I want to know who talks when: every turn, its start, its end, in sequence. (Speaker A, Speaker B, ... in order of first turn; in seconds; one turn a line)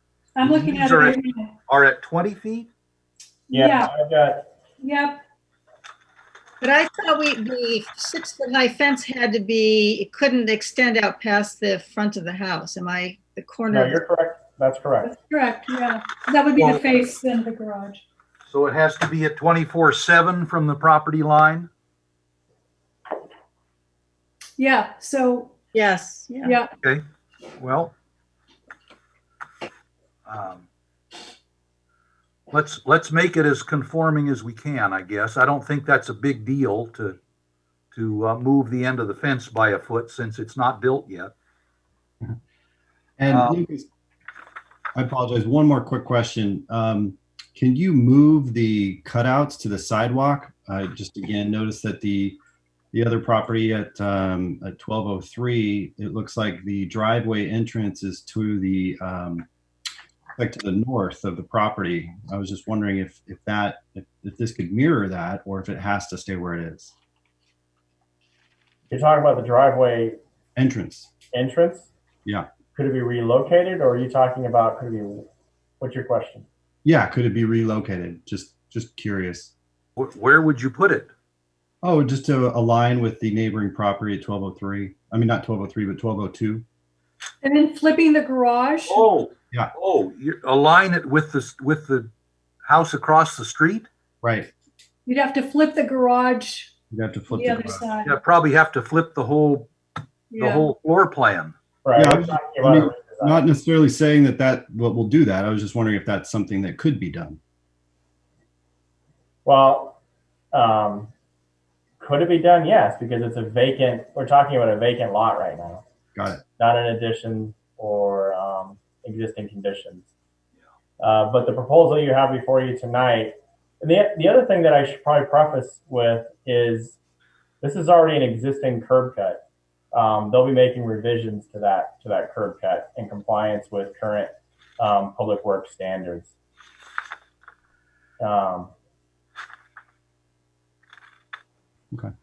Speaker A: 0.4-1.5
Speaker B: 0.4-2.7
Speaker A: 3.5-3.9
Speaker C: 3.5-4.5
Speaker A: 4.8-5.2
Speaker D: 6.6-14.0
Speaker C: 13.7-15.1
Speaker A: 15.0-18.0
Speaker B: 16.6-16.9
Speaker B: 18.5-21.7
Speaker A: 24.6-25.5
Speaker D: 25.7-26.6
Speaker A: 26.4-26.7
Speaker B: 27.6-27.9
Speaker B: 30.3-30.7
Speaker B: 32.5-37.2
Speaker B: 37.9-41.3
Speaker E: 43.2-43.9
Speaker B: 43.3-43.6
Speaker E: 45.0-52.4
Speaker E: 52.9-59.5
Speaker E: 60.4-66.9
Speaker C: 68.9-70.2
Speaker E: 70.6-71.1
Speaker C: 71.3-71.9
Speaker C: 72.7-75.3
Speaker C: 75.8-76.5
Speaker E: 76.8-79.5
Speaker B: 80.0-81.1
Speaker E: 81.8-86.7
Speaker A: 87.4-89.0
Speaker B: 88.9-92.1
Speaker B: 92.7-93.9
Speaker E: 94.2-94.5
Speaker A: 95.1-96.7
Speaker E: 96.9-97.9
Speaker A: 97.3-98.2
Speaker B: 98.0-99.7
Speaker A: 100.3-100.7
Speaker B: 100.3-101.5
Speaker C: 101.8-103.5
Speaker E: 102.0-107.4
Speaker C: 109.5-110.0
Speaker C: 110.5-111.1
Speaker C: 112.0-115.8
Speaker E: 116.2-116.4
Speaker C: 116.6-120.1
Speaker C: 121.0-127.0
Speaker C: 127.6-136.3
Speaker C: 138.2-138.7